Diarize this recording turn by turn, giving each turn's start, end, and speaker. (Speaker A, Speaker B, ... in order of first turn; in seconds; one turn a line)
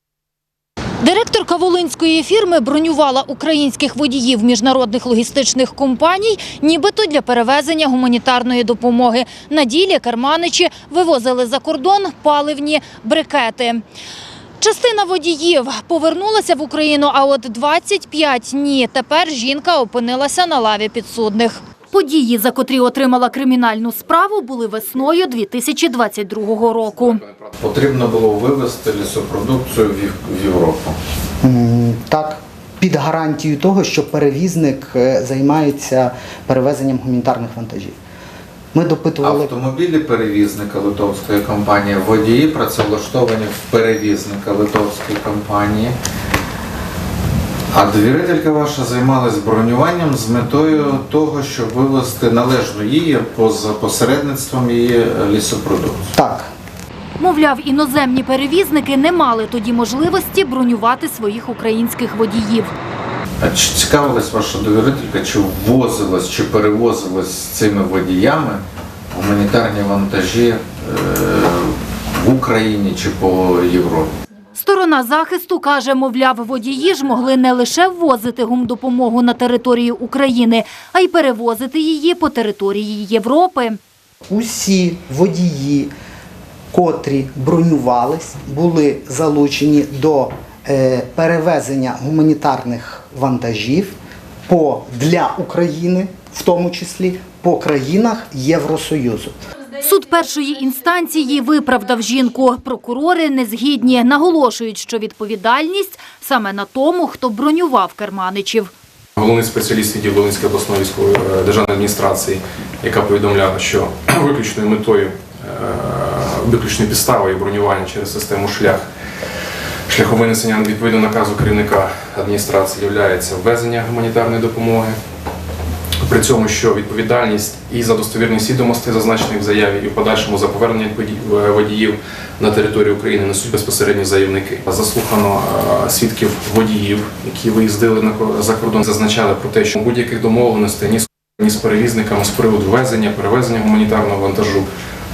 Speaker A: 1.0-13.8
Speaker A: 14.6-27.2
Speaker B: 27.6-31.0
Speaker C: 31.4-38.0
Speaker C: 38.7-39.5
Speaker B: 39.2-46.0
Speaker B: 47.7-56.1
Speaker C: 56.1-56.5
Speaker A: 57.2-62.7
Speaker B: 63.4-74.2
Speaker A: 74.5-83.8
Speaker C: 84.3-85.9
Speaker C: 86.7-94.0
Speaker C: 94.5-99.4
Speaker A: 99.8-108.7
Speaker D: 109.2-118.9
Speaker D: 119.9-125.0
Speaker D: 126.0-144.7